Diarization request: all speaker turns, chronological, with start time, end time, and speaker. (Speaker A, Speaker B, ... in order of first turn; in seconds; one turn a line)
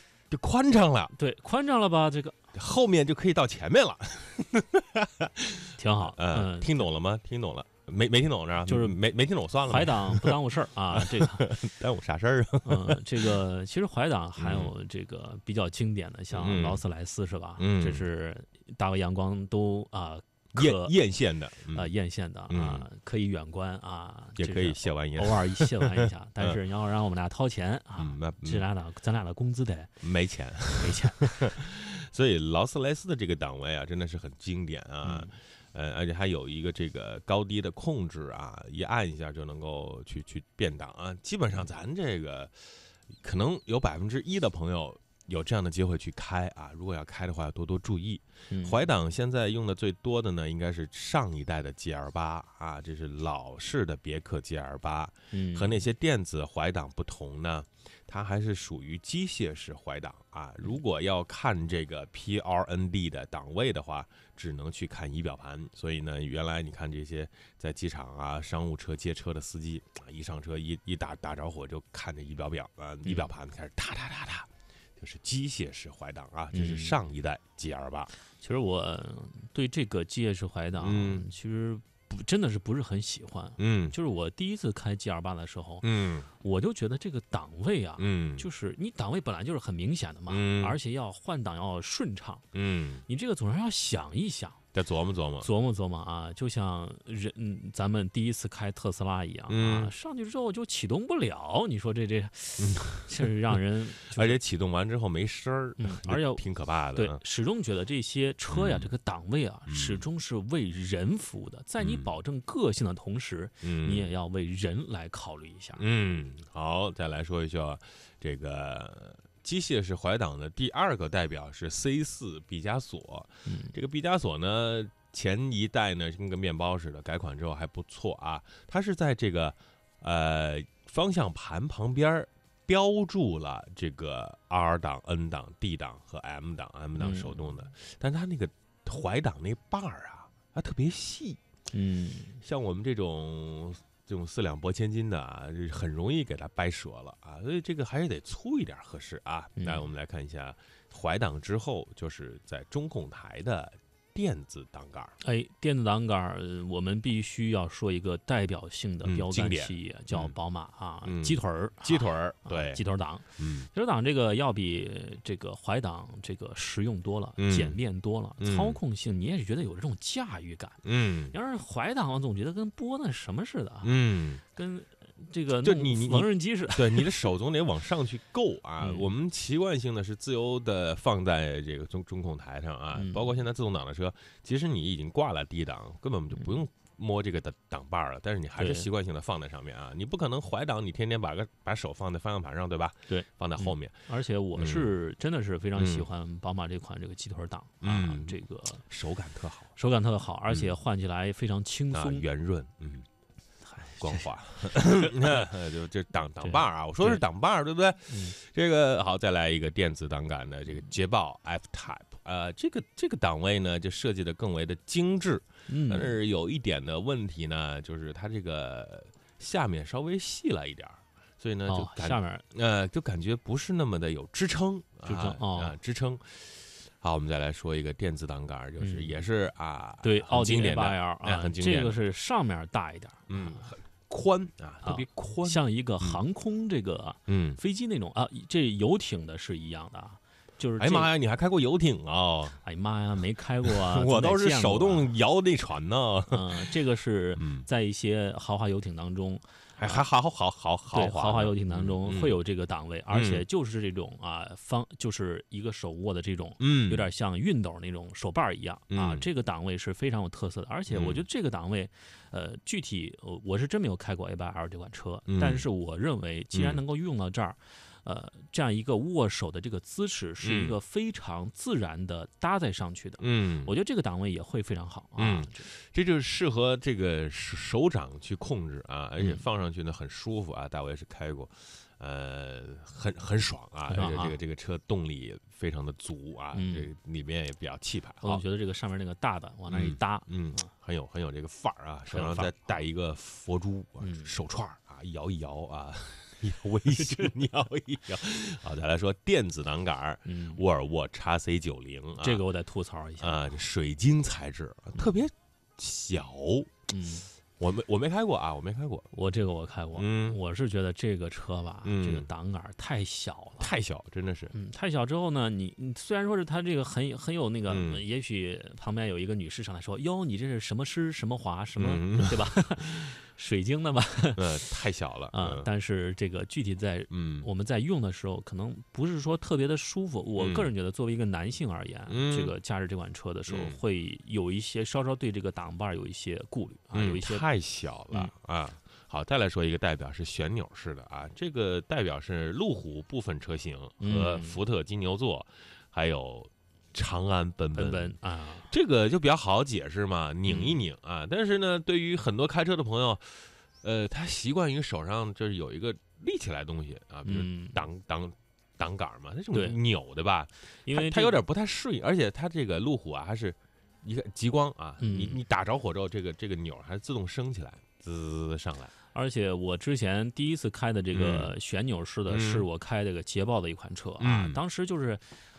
Speaker A: 0.3-1.1
Speaker B: 1.1-2.4
Speaker A: 2.5-10.4
Speaker B: 5.8-6.9
Speaker B: 8.7-9.0
Speaker B: 9.7-11.5
Speaker A: 10.9-13.3
Speaker B: 12.6-20.9
Speaker A: 14.4-14.7
Speaker A: 16.3-16.8
Speaker A: 17.6-18.1
Speaker A: 20.6-21.9
Speaker B: 21.7-30.0
Speaker A: 22.5-22.9
Speaker A: 24.4-26.6
Speaker A: 28.0-28.6
Speaker A: 30.0-78.1
Speaker B: 30.8-31.6
Speaker B: 35.0-35.3
Speaker B: 48.5-48.8
Speaker B: 55.3-55.8
Speaker B: 73.0-73.3
Speaker B: 76.5-77.0
Speaker B: 78.4-92.5
Speaker A: 80.8-81.2
Speaker A: 83.6-83.9
Speaker A: 85.8-86.3
Speaker A: 88.0-88.5
Speaker A: 90.3-90.8
Speaker A: 92.5-93.0
Speaker B: 93.1-94.6
Speaker A: 94.7-95.5
Speaker B: 95.4-104.4
Speaker A: 99.5-99.9
Speaker A: 102.6-107.2
Speaker B: 105.8-106.4
Speaker B: 106.9-115.8
Speaker A: 108.5-108.9
Speaker A: 109.7-110.0
Speaker A: 111.8-112.1
Speaker A: 113.6-114.1
Speaker A: 115.8-141.4
Speaker B: 123.5-123.7
Speaker B: 137.0-137.4
Speaker B: 141.7-142.4
Speaker A: 142.4-155.1
Speaker B: 149.6-149.8
Speaker B: 155.2-170.8
Speaker A: 159.0-160.3
Speaker A: 161.0-162.8
Speaker A: 163.4-163.7
Speaker A: 167.4-167.8
Speaker A: 168.4-168.8
Speaker A: 170.8-171.3
Speaker B: 171.3-174.0
Speaker A: 173.8-174.4
Speaker B: 174.5-177.3
Speaker A: 175.6-193.9
Speaker B: 178.8-179.1
Speaker B: 182.9-183.3
Speaker B: 188.6-188.9
Speaker B: 193.1-198.8
Speaker A: 194.6-194.9
Speaker A: 195.8-196.1
Speaker A: 197.8-199.7
Speaker B: 199.8-202.3
Speaker A: 200.5-200.7
Speaker A: 201.9-203.1
Speaker B: 203.6-204.3
Speaker A: 203.8-232.0
Speaker B: 206.4-207.2
Speaker B: 208.1-208.3
Speaker B: 215.7-216.2
Speaker B: 221.7-222.4
Speaker B: 225.0-225.7
Speaker B: 228.8-229.2
Speaker B: 230.0-233.7
Speaker A: 233.3-236.2
Speaker B: 234.8-241.1
Speaker A: 237.3-237.6
Speaker A: 240.8-242.6
Speaker B: 242.6-245.1
Speaker A: 243.7-246.7
Speaker B: 246.3-250.0
Speaker A: 247.4-247.7
Speaker A: 249.8-252.3
Speaker B: 250.9-275.7
Speaker A: 253.1-253.4
Speaker A: 256.6-257.1
Speaker A: 258.9-259.3
Speaker A: 260.9-261.2
Speaker A: 265.2-265.7
Speaker A: 266.5-266.8
Speaker A: 270.4-270.8
Speaker A: 273.2-273.7
Speaker A: 275.2-288.4
Speaker B: 279.2-279.5
Speaker B: 283.9-284.4
Speaker B: 286.5-286.9
Speaker B: 288.2-290.7
Speaker A: 289.7-302.4
Speaker B: 292.1-292.8
Speaker B: 294.0-294.3
Speaker B: 297.0-297.3
Speaker B: 300.2-300.6
Speaker B: 302.2-303.4
Speaker A: 303.2-306.7
Speaker B: 306.9-307.3
Speaker A: 307.6-309.1
Speaker B: 309.1-313.7
Speaker A: 310.0-310.4
Speaker A: 311.8-312.3
Speaker A: 313.6-314.5
Speaker B: 314.5-324.7
Speaker A: 317.7-318.0
Speaker A: 321.8-322.6
Speaker A: 324.4-325.7
Speaker B: 325.3-337.4
Speaker A: 327.1-327.5
Speaker A: 330.4-330.7
Speaker A: 332.1-332.5
Speaker A: 333.5-333.8
Speaker A: 336.9-348.2
Speaker B: 344.0-344.6
Speaker B: 347.7-348.7
Speaker A: 348.7-368.9
Speaker B: 350.4-350.8
Speaker B: 357.2-357.8
Speaker B: 359.5-359.8
Speaker B: 360.9-361.4
Speaker B: 365.0-365.4
Speaker B: 369.1-375.2
Speaker A: 371.1-371.5
Speaker A: 372.3-372.6
Speaker A: 374.2-374.6